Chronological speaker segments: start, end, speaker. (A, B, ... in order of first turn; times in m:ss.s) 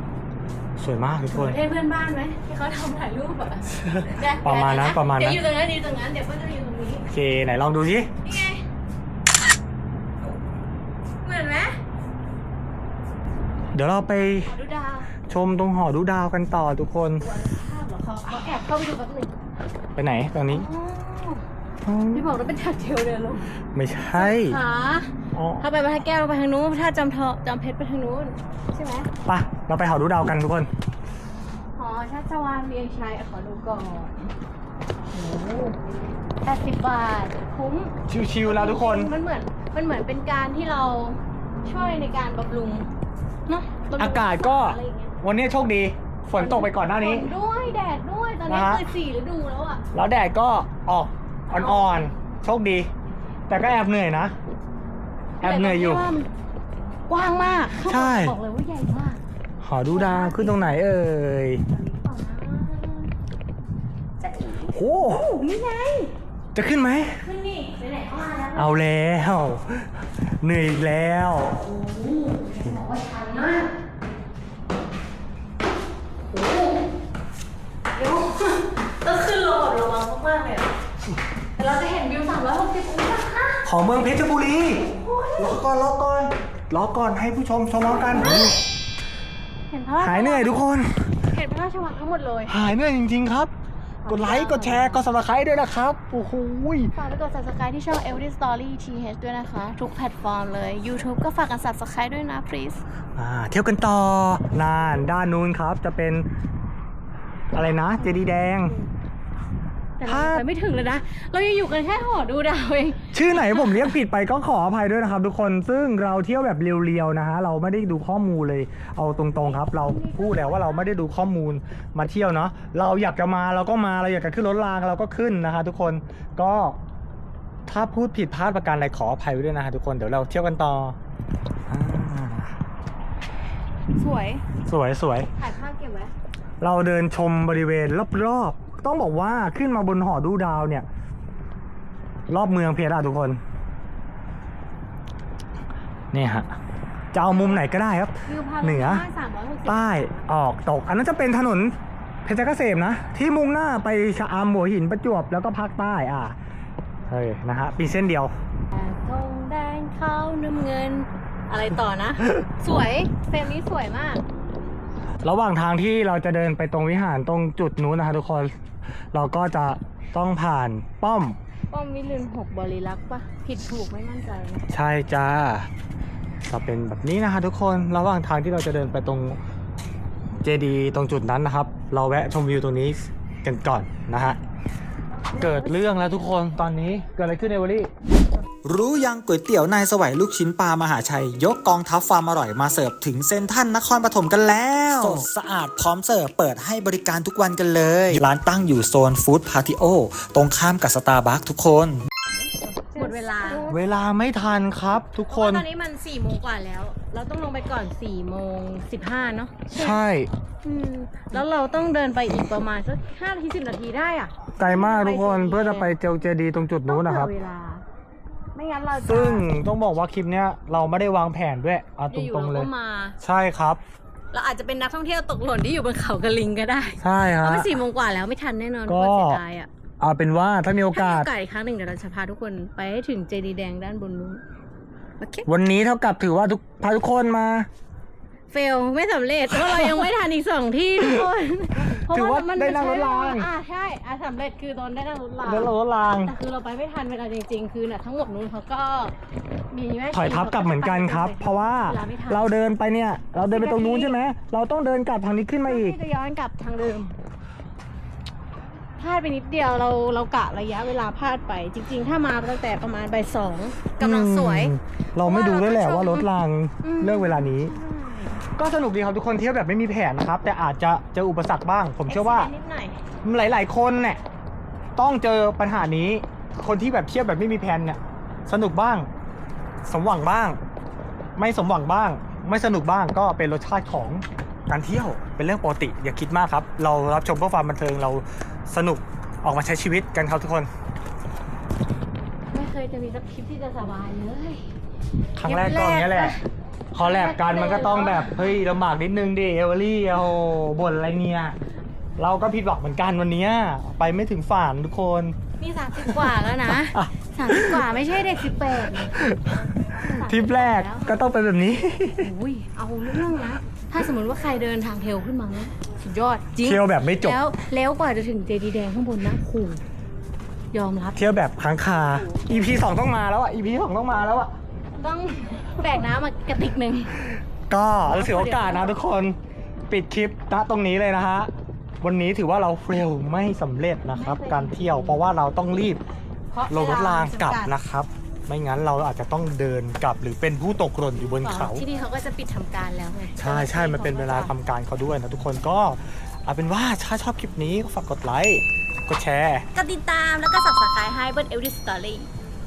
0:00.8-0:01.6 A
0:01.3-0:07.1 B
0:03.8-0:05.4 A
0:07.1-0:08.1 A
0:08.2-0:08.6 B
0:11.2-0:11.8 B
0:13.7-0:14.6 A
0:14.5-0:15.1 B
0:15.3-0:17.2 A
0:17.2-0:19.3 B
0:20.0-0:20.7 A
0:20.5-0:21.4 B
0:21.8-0:22.3 A
0:22.1-0:23.5 B
0:23.7-0:24.6 A
0:24.2-0:29.1 B
0:25.3-0:25.7 A
0:29.3-0:30.7 A
0:31.8-0:34.3 B
0:35.1-0:35.8 B
0:36.4-0:42.9 B
0:38.1-0:39.1 A
0:43.5-0:45.1 B
0:44.0-0:47.3 A
0:46.4-0:49.8 B
0:48.5-0:48.8 A
0:49.9-0:52.9 A
0:51.5-0:52.1 B
0:53.5-0:54.4 A
0:55.4-0:56.1 A
0:55.4-0:56.3 B
0:57.1-0:59.2 B
0:57.8-0:58.4 A
0:59.6-1:01.6 A
0:59.9-1:00.8 B
1:01.7-1:03.1 B
1:04.2-1:06.1 B
1:04.7-1:05.4 A
1:06.5-1:07.2 A
1:07.2-1:08.8 B
1:08.5-1:11.6 A
1:11.6-1:13.7 B
1:16.3-1:16.8 B
1:18.0-1:20.7 B
1:21.6-1:23.6 B
1:23.6-1:28.6 A
1:24.9-1:25.6 B
1:27.9-1:28.6 B
1:29.7-1:30.6 B
1:30.0-1:31.1 A
1:31.3-1:32.6 B
1:32.5-1:33.5 A
1:34.0-1:35.0 B
1:34.1-1:36.9 A
1:36.9-1:42.8 B
1:43.2-1:46.3 A
1:47.5-1:48.8 A
1:47.6-1:48.9 B
1:50.0-1:53.9 B
1:50.1-1:50.4 A
1:53.1-2:06.8 A
1:59.5-2:00.9 B
2:07.7-2:11.0 A
2:11.7-2:12.6 A
2:14.0-2:14.4 B
2:14.6-2:15.3 A
2:15.4-2:16.1 B
2:16.6-2:20.9 A
2:22.3-2:23.4 A
2:26.1-2:26.5 A
2:27.1-2:29.1 A
2:27.3-2:27.6 B
2:28.3-2:30.3 B
2:29.7-2:36.4 A
2:37.1-2:38.3 A
2:38.7-2:44.2 B
2:45.2-2:48.5 A
2:49.1-2:51.4 A
2:51.7-2:54.6 B
2:54.7-2:55.7 A
2:56.5-2:59.4 A
3:00.4-3:04.4 A
3:05.4-3:07.9 A
3:08.6-3:22.0 C
3:14.9-3:15.3 A
3:18.1-3:18.8 A
3:22.9-3:23.6 B
3:23.7-3:25.6 A
3:25.3-3:30.0 B
3:29.7-3:30.3 A
3:30.6-3:35.9 B
3:34.6-3:37.3 A
3:36.9-3:37.8 B
3:38.6-3:39.5 B
3:39.0-3:43.8 A
3:42.1-3:43.2 B
3:44.3-3:49.7 B
3:47.0-3:47.7 A
3:48.9-3:49.4 A
3:50.0-3:51.3 A
3:50.9-3:54.4 B
3:55.2-3:55.5 B
3:55.5-3:57.7 A
3:58.5-4:09.1 B
3:59.5-4:00.1 A
4:01.0-4:01.2 A
4:01.8-4:03.5 A
4:05.5-4:06.3 A
4:09.7-4:12.5 B
4:10.1-4:16.0 A
4:13.4-4:14.2 B
4:15.7-4:17.2 B
4:19.0-4:26.3 B
4:24.0-4:27.7 A
4:26.8-4:28.4 B
4:28.6-4:32.5 A
4:32.1-4:33.0 B
4:33.2-4:34.2 A
4:35.0-4:39.1 A
4:39.8-4:40.6 A
4:41.4-4:50.7 A
4:52.5-4:54.7 B
4:55.4-4:56.4 A
4:55.4-4:56.4 B
4:56.9-5:01.6 A
4:57.0-4:58.4 B
5:02.2-5:05.4 A
5:05.6-5:09.2 B
5:06.0-5:07.9 A
5:09.1-5:12.3 A
5:09.9-5:11.1 B
5:12.2-5:19.8 B
5:16.6-5:17.4 A
5:20.7-5:21.2 B
5:21.2-5:24.5 A
5:25.0-5:27.2 B
5:27.7-5:29.4 A
5:28.0-5:29.0 B
5:29.9-5:31.5 A
5:32.0-5:36.0 A
5:34.1-5:35.2 B
5:36.5-5:37.7 B
5:36.7-5:41.8 A
5:41.4-5:44.5 B
5:43.4-5:49.6 A
5:49.7-5:52.3 B